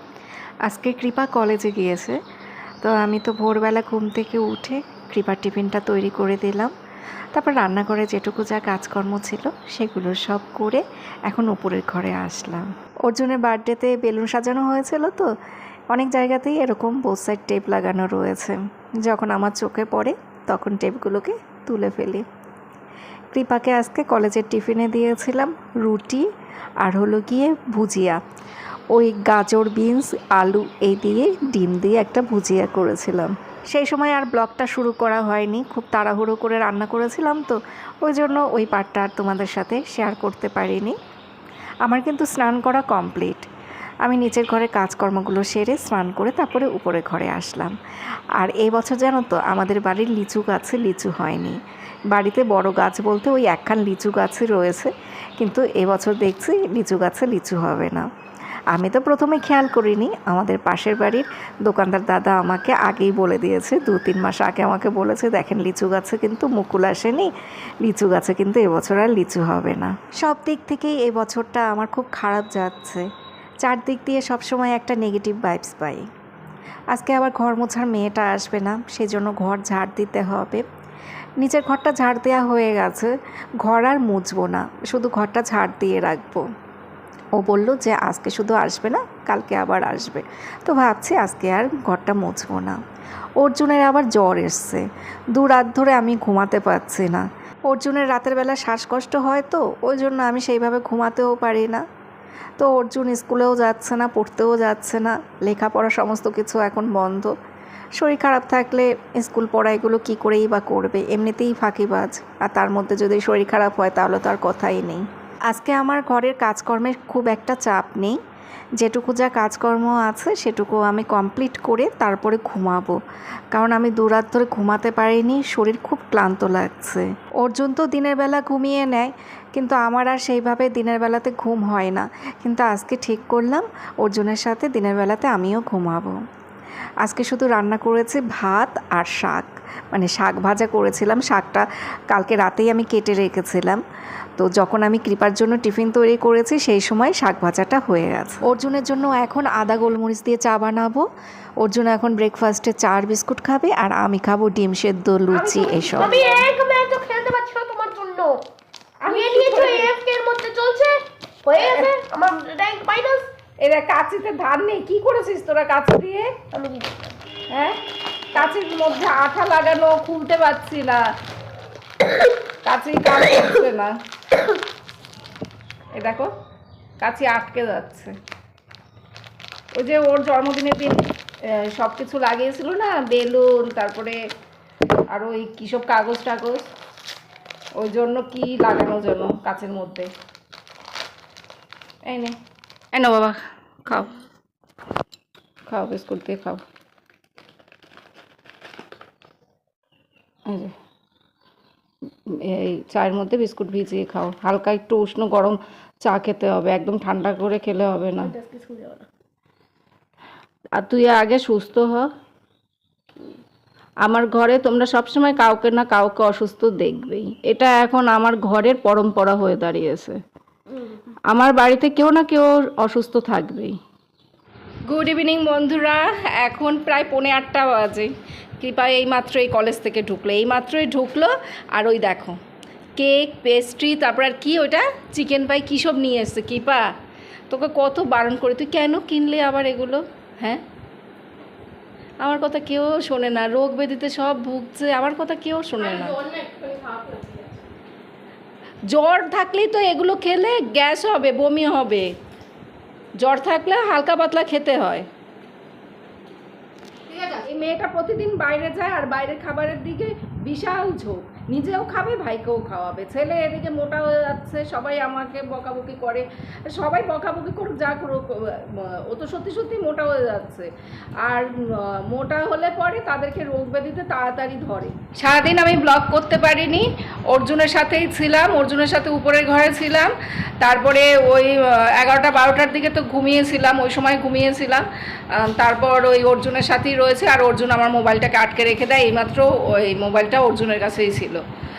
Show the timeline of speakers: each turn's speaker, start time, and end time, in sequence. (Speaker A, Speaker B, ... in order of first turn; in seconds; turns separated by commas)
Speaker A: 0.6-2.2, Speaker A: 2.8-6.7, Speaker A: 7.3-15.3, Speaker A: 15.9-22.2, Speaker A: 23.3-26.2, Speaker A: 26.8-28.2, Speaker A: 28.9-41.0, Speaker A: 41.8-43.5, Speaker A: 44.0-47.7, Speaker A: 48.4-51.6, Speaker A: 52.1-58.0, Speaker A: 58.7-67.3, Speaker A: 67.8-73.0, Speaker A: 73.6-76.0, Speaker A: 76.9-80.6, Speaker A: 81.4-86.5, Speaker A: 87.3-92.8, Speaker A: 93.4-101.8, Speaker A: 102.6-107.3, Speaker A: 108.0-118.2, Speaker A: 118.8-123.0, Speaker A: 123.5-136.2, Speaker A: 137.0-143.8, Speaker A: 144.4-151.0, Speaker A: 151.6-156.2, Speaker B: 155.3-156.5, Speaker C: 155.9-158.4, Speaker B: 159.0-160.0, Speaker C: 159.1-163.3, Speaker B: 161.6-162.0, Speaker B: 163.6-166.4, Speaker C: 166.5-167.0, Speaker B: 167.5-167.8, Speaker B: 168.3-171.1, Speaker B: 172.6-173.9, Speaker B: 175.9-176.3, Speaker B: 177.0-178.1, Speaker B: 179.7-184.2, Speaker B: 185.1-186.7, Speaker B: 187.8-190.1, Speaker B: 192.1-192.4, Speaker B: 192.9-194.1, Speaker B: 195.7-196.6, Speaker B: 200.5-200.7, Speaker B: 202.3-208.3, Speaker C: 208.3-209.1, Speaker B: 210.7-212.1, Speaker B: 214.0-220.2, Speaker B: 221.3-223.8, Speaker B: 224.8-232.4, Speaker B: 233.0-236.9, Speaker B: 237.5-240.6, Speaker B: 242.2-246.2, Speaker C: 245.9-247.6, Speaker B: 248.9-252.1, Speaker B: 253.2-255.1, Speaker B: 257.1-291.4